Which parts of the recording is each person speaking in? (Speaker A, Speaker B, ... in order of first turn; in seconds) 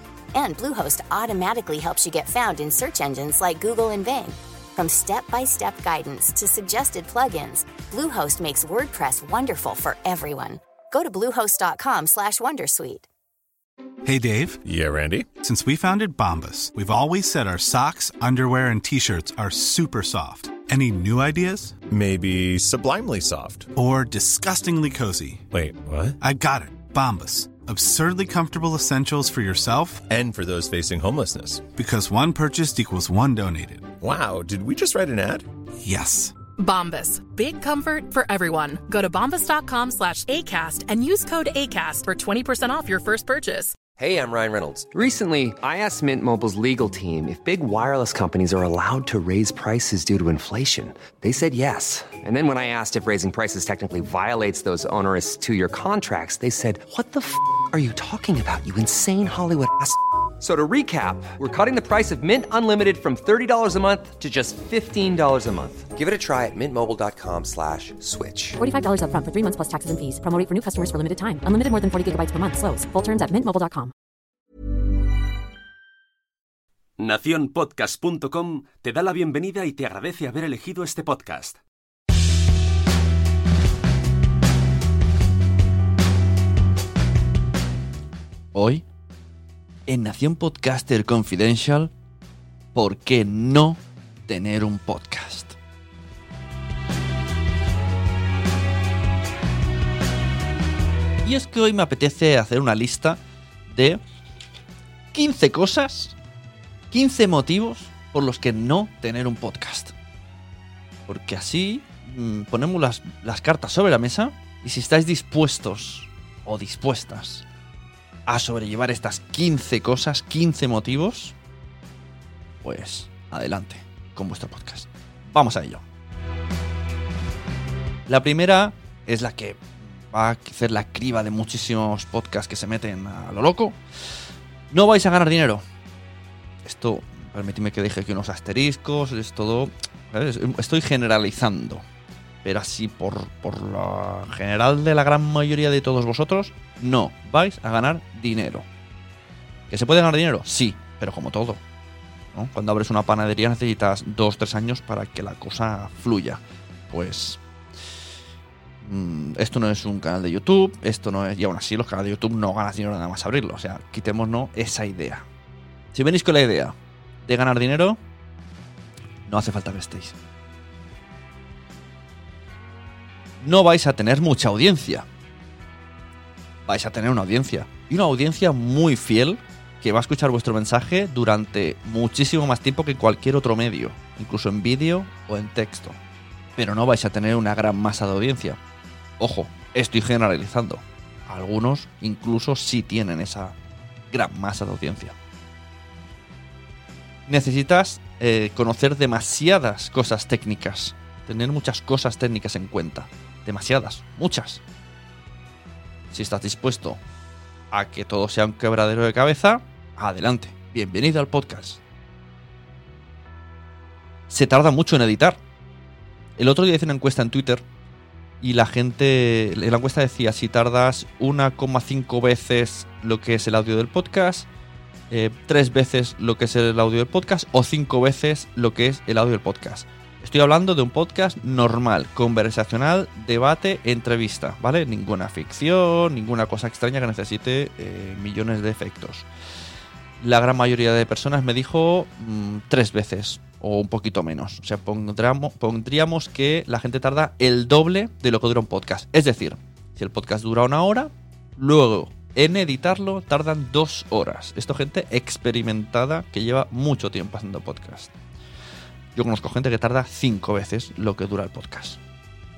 Speaker A: 0.3-13.1
Speaker B: 14.1-14.6, 15.3-21.8, 23.8-25.4, 26.2-30.1, 31.8-33.9, 35.8-36.4
Speaker C: 14.7-15.3, 21.9-23.7, 25.5-26.2, 30.1-31.7, 34.0-35.5
Speaker D: 36.6-43.7
Speaker E: 44.0-68.6
Speaker F: 68.6-73.9
Speaker G: 77.0-81.5
Speaker H: 88.5-88.8, 89.9-91.9, 92.8-95.6, 101.2-104.0, 105.1-106.2, 106.9-109.9, 111.1-117.5, 118.3-121.3, 122.6-125.8, 128.1-133.8, 134.7-135.6, 136.7-141.8, 142.4-148.7, 149.7-151.6, 152.3-157.4, 158.8-165.3, 165.9-168.0, 169.3-170.2, 173.4-175.1, 176.7-186.0, 186.6-188.6, 189.2-193.6, 194.1-195.2, 197.3-204.6, 206.1-207.0, 207.7-211.8, 214.3-215.4, 216.4-217.7, 218.4-224.5, 225.1-239.3, 240.2-258.1, 259.1-262.0